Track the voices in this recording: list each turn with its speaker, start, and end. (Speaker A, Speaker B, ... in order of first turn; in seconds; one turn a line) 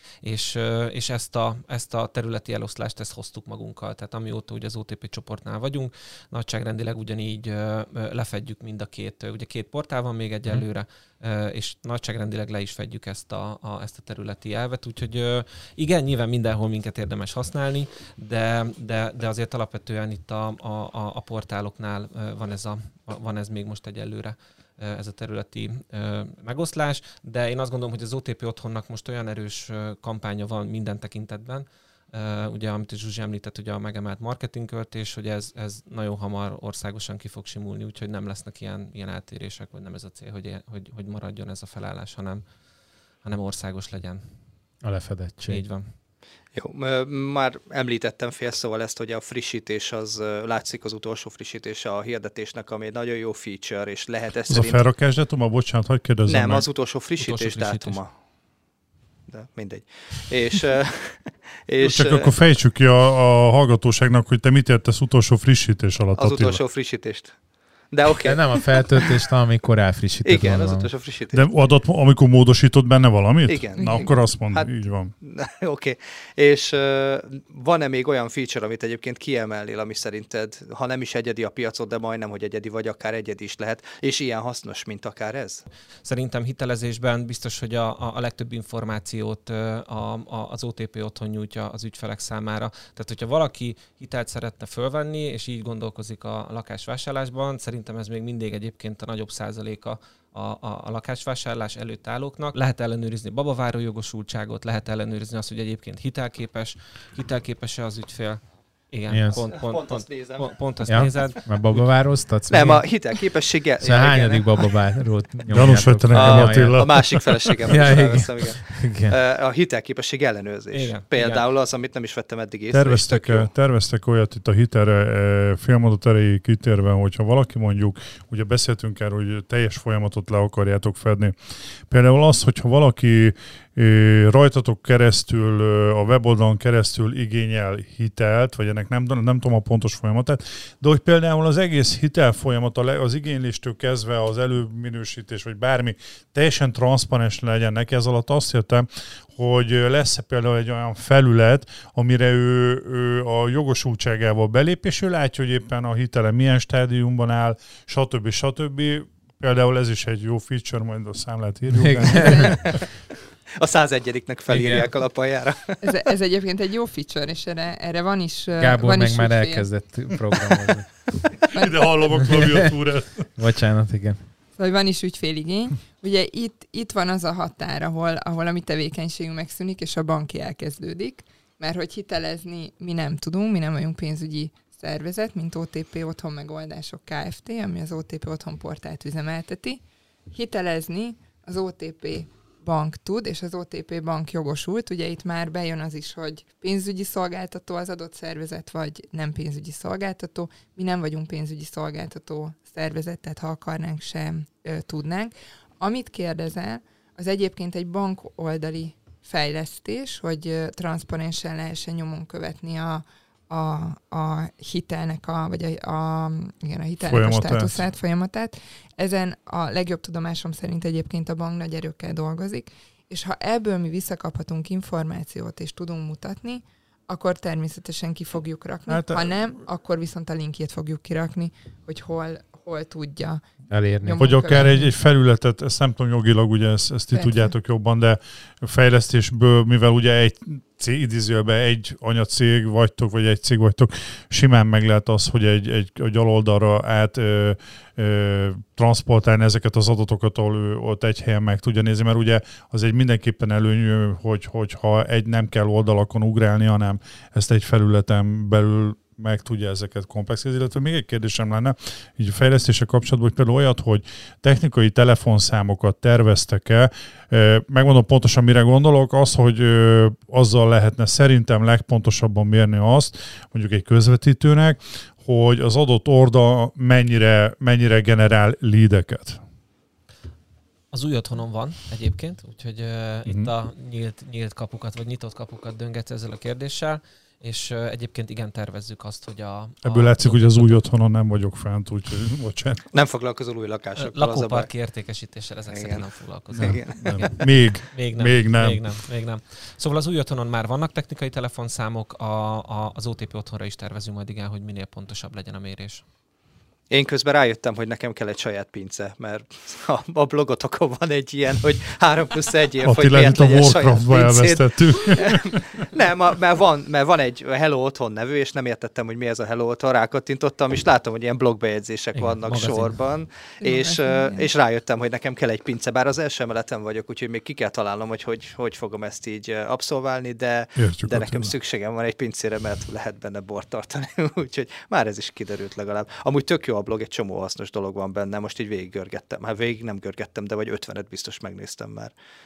Speaker A: 0.2-42.4
Speaker A: 43.2-44.2
Speaker B: 44.8-45.6
Speaker A: 45.5-45.9
Speaker C: 46.5-54.8
Speaker D: 54.5-56.6
Speaker C: 56.3-58.1
Speaker A: 57.2-58.0
Speaker C: 59.3-62.3
Speaker D: 61.8-66.6
Speaker C: 66.2-67.4
Speaker C: 67.9-69.1
Speaker B: 68.2-70.9
Speaker C: 70.2-71.4
Speaker D: 71.3-75.1
Speaker C: 73.5-85.6
Speaker E: 73.8-74.1
Speaker A: 86.0-111.9
Speaker B: 109.1-109.4
Speaker C: 109.5-111.4
Speaker B: 110.9-113.0
Speaker C: 112.5-114.7
Speaker B: 113.8-116.8
Speaker D: 115.5-117.6
Speaker C: 116.1-123.5
Speaker B: 117.7-119.2
Speaker A: 120.7-121.5
Speaker D: 122.7-162.8
Speaker B: 161.7-162.5
Speaker E: 162.2-162.5
Speaker C: 162.4-162.9
Speaker C: 163.5-165.9
Speaker B: 164.5-164.9
Speaker E: 165.8-169.7
Speaker B: 168.6-170.9
Speaker D: 171.5-173.3
Speaker E: 171.5-171.9
Speaker B: 172.2-172.7
Speaker B: 173.4-174.2
Speaker E: 174.6-233.4
Speaker D: 217.0-217.8
Speaker D: 228.9-229.6
Speaker B: 233.7-234.6
Speaker E: 234.0-234.9
Speaker D: 234.2-279.4
Speaker E: 237.1-237.5
Speaker A: 280.9-290.8
Speaker D: 289.8-292.9
Speaker C: 292.9-294.7
Speaker A: 293.9-297.4
Speaker C: 295.7-297.4
Speaker D: 296.6-298.9
Speaker A: 297.9-306.0
Speaker C: 306.9-342.1
Speaker D: 312.8-315.7
Speaker B: 322.1-323.0
Speaker E: 323.6-324.5
Speaker D: 330.8-331.5